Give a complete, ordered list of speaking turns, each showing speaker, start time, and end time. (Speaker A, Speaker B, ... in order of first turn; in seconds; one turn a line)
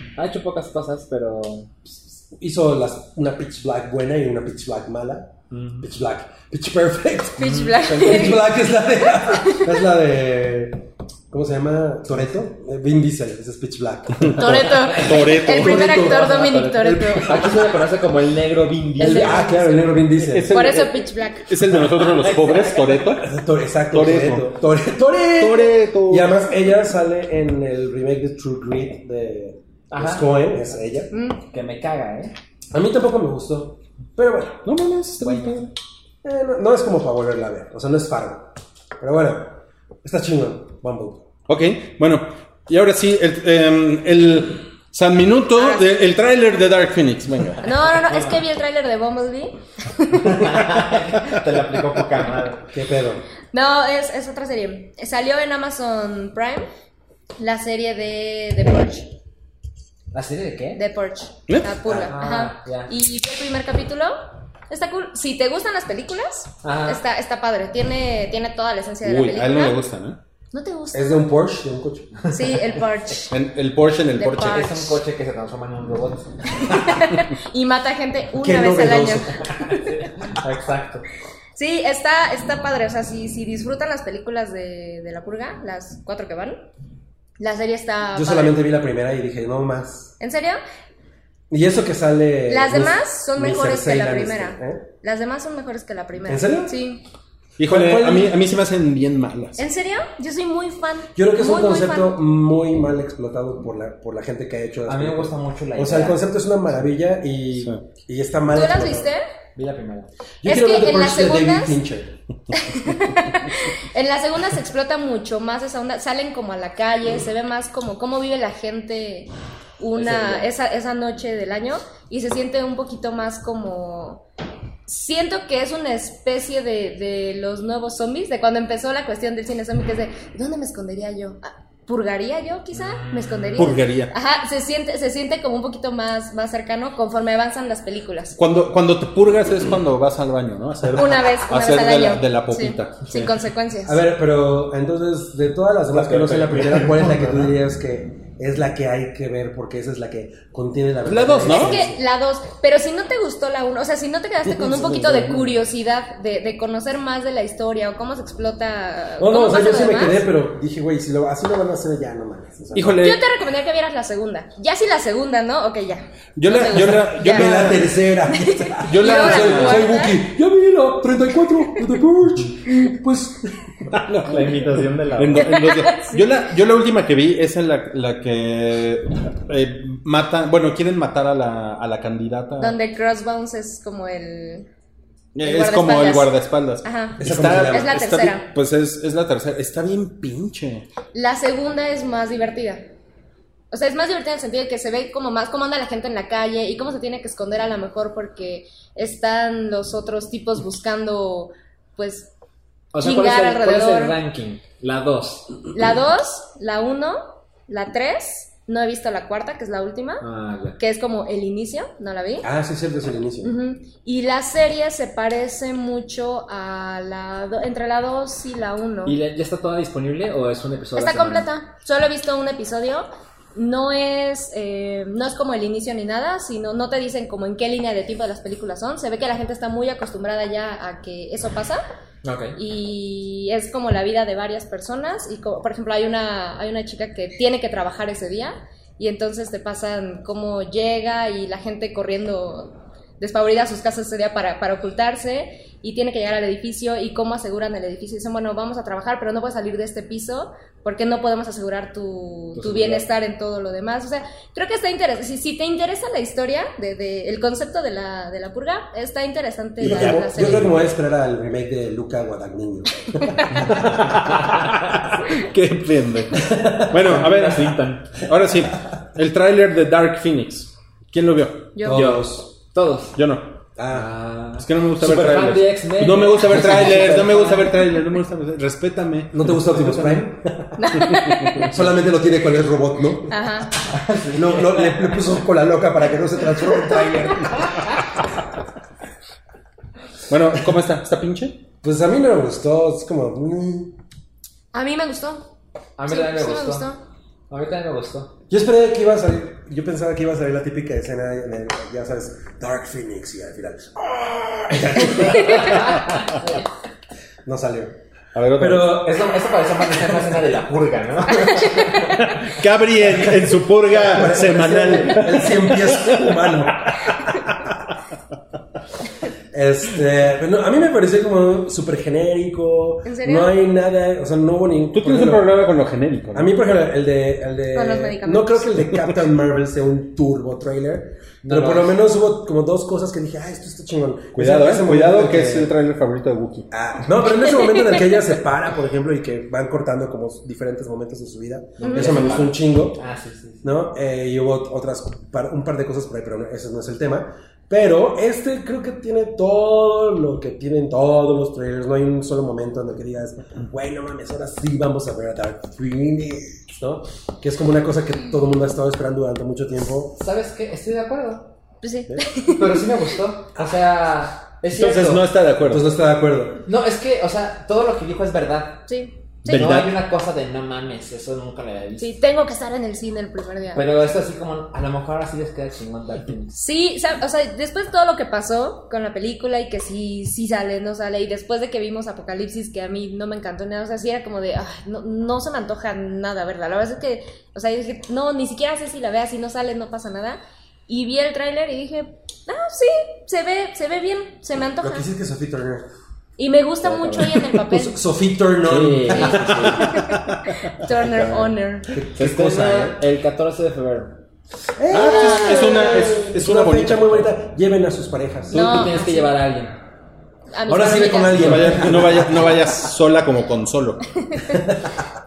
Speaker A: 0.1-1.8
Speaker B: 2.1-17.7
Speaker A: 5.5-5.9
Speaker C: 7.4-8.5
Speaker A: 7.4-8.4
Speaker C: 9.1-9.7
Speaker D: 14.2-16.1
Speaker C: 14.3-17.5
Speaker A: 14.8-19.5
Speaker C: 19.0-19.9
Speaker B: 19.0-20.6
Speaker D: 20.1-23.4
Speaker C: 20.5-21.5
Speaker A: 22.0-23.2
Speaker B: 23.1-31.1
Speaker D: 23.9-24.5
Speaker D: 25.3-26.4
Speaker A: 29.9-30.6
Speaker C: 31.1-31.4
Speaker A: 31.4-32.3
Speaker B: 32.7-34.6
Speaker D: 34.6-35.7
Speaker A: 35.2-35.7
Speaker B: 36.2-41.2
Speaker D: 41.5-47.7
Speaker C: 45.6-45.9
Speaker C: 47.6-50.6
Speaker A: 48.1-48.3
Speaker A: 50.1-52.7
Speaker B: 52.7-53.2
Speaker C: 53.5-56.7
Speaker C: 57.4-59.1
Speaker A: 60.1-60.8
Speaker C: 60.7-64.2
Speaker D: 61.5-61.8
Speaker B: 61.9-62.1
Speaker A: 62.0-62.9
Speaker C: 64.7-69.8
Speaker A: 66.6-67.0
Speaker D: 69.0-70.2
Speaker C: 70.5-71.3
Speaker B: 70.9-72.3
Speaker C: 72.3-73.3
Speaker D: 73.3-74.7
Speaker C: 74.2-75.0
Speaker A: 74.5-76.8
Speaker C: 76.6-79.3
Speaker B: 78.4-79.4
Speaker A: 79.4-81.0
Speaker C: 81.5-86.6
Speaker C: 87.4-88.6
Speaker B: 88.1-90.1
Speaker C: 90.2-90.6
Speaker B: 91.5-94.8
Speaker C: 92.5-97.0
Speaker B: 96.2-96.7
Speaker D: 97.6-99.6
Speaker B: 97.7-98.4
Speaker C: 99.6-102.2
Speaker B: 101.1-109.1
Speaker A: 104.9-106.2
Speaker C: 108.5-109.2
Speaker A: 109.5-110.1
Speaker B: 110.4-112.2
Speaker C: 110.5-111.8
Speaker C: 112.5-124.2
Speaker A: 119.9-120.5
Speaker C: 124.9-138.4
Speaker A: 132.7-133.7
Speaker D: 133.6-134.1
Speaker D: 138.3-143.3
Speaker C: 140.9-144.0
Speaker B: 143.8-152.0
Speaker D: 145.9-147.3
Speaker D: 151.1-151.8
Speaker C: 151.4-160.2
Speaker B: 154.4-155.5
Speaker B: 159.2-163.0
Speaker D: 162.7-163.2
Speaker C: 163.0-167.7
Speaker D: 166.3-168.0
Speaker B: 166.7-173.9
Speaker C: 168.3-170.2
Speaker D: 168.8-170.0
Speaker D: 173.9-174.7
Speaker A: 174.1-175.5
Speaker D: 175.2-182.8
Speaker C: 175.5-176.2
Speaker C: 182.6-184.7
Speaker D: 185.3-190.9
Speaker C: 185.4-186.3
Speaker C: 186.8-188.4
Speaker B: 187.2-188.0
Speaker C: 191.1-192.8
Speaker C: 193.7-202.3
Speaker A: 202.9-205.6
Speaker C: 203.0-204.2
Speaker C: 205.7-210.2
Speaker A: 210.2-210.8
Speaker C: 210.8-212.5
Speaker B: 212.4-213.6
Speaker C: 213.4-219.2
Speaker A: 219.0-221.5
Speaker C: 220.9-231.8
Speaker A: 232.2-232.6
Speaker C: 232.6-260.8
Speaker A: 252.5-253.1
Speaker B: 259.8-263.7
Speaker D: 259.9-260.7
Speaker C: 263.1-263.6
Speaker D: 263.6-271.7
Speaker B: 266.3-267.2
Speaker A: 267.0-268.2
Speaker C: 271.7-272.1
Speaker B: 271.8-272.5
Speaker A: 271.9-273.2
Speaker D: 273.1-273.6
Speaker B: 273.8-274.1
Speaker A: 273.9-277.9
Speaker D: 274.6-280.2
Speaker B: 279.3-283.5
Speaker C: 280.8-281.7
Speaker D: 281.0-281.8
Speaker C: 283.3-283.7
Speaker A: 283.8-285.4
Speaker B: 284.3-287.9
Speaker D: 290.3-291.6
Speaker B: 291.8-294.0
Speaker C: 294.7-295.5
Speaker A: 296.0-296.9
Speaker C: 296.1-297.0
Speaker A: 297.5-298.4
Speaker B: 298.5-306.0
Speaker C: 305.1-305.8
Speaker B: 307.4-308.0
Speaker D: 308.3-309.0
Speaker B: 308.6-309.3
Speaker A: 308.8-312.2
Speaker D: 312.4-317.7
Speaker B: 313.1-313.4
Speaker B: 313.9-317.0
Speaker A: 314.1-315.2
Speaker B: 319.5-325.4
Speaker C: 323.0-323.5
Speaker D: 324.9-326.5
Speaker B: 326.3-335.7
Speaker C: 327.7-328.7
Speaker A: 331.4-332.0
Speaker D: 334.3-336.7
Speaker B: 336.7-343.0
Speaker C: 337.3-338.2
Speaker A: 341.8-343.6
Speaker C: 341.8-342.4
Speaker B: 343.6-360.2
Speaker A: 360.1-361.5
Speaker C: 361.8-362.9
Speaker A: 362.5-365.2
Speaker D: 364.7-365.9
Speaker B: 365.6-366.6
Speaker A: 366.6-368.9
Speaker C: 368.9-369.1
Speaker D: 369.4-370.0
Speaker A: 369.4-372.1
Speaker C: 372.0-373.8
Speaker A: 373.7-376.6
Speaker C: 376.5-395.0
Speaker B: 394.8-395.9
Speaker C: 396.4-398.0
Speaker A: 396.8-397.4
Speaker B: 397.7-399.8
Speaker A: 398.6-400.0
Speaker C: 399.2-400.1
Speaker D: 399.9-400.5
Speaker C: 400.7-401.9
Speaker A: 401.0-401.5
Speaker B: 401.9-403.0
Speaker A: 402.1-404.2
Speaker B: 404.8-408.9
Speaker D: 404.9-407.3
Speaker C: 405.1-406.0
Speaker A: 408.5-409.8
Speaker C: 408.5-409.3
Speaker C: 410.5-411.9
Speaker B: 410.7-412.7
Speaker D: 411.3-414.1
Speaker B: 414.5-415.0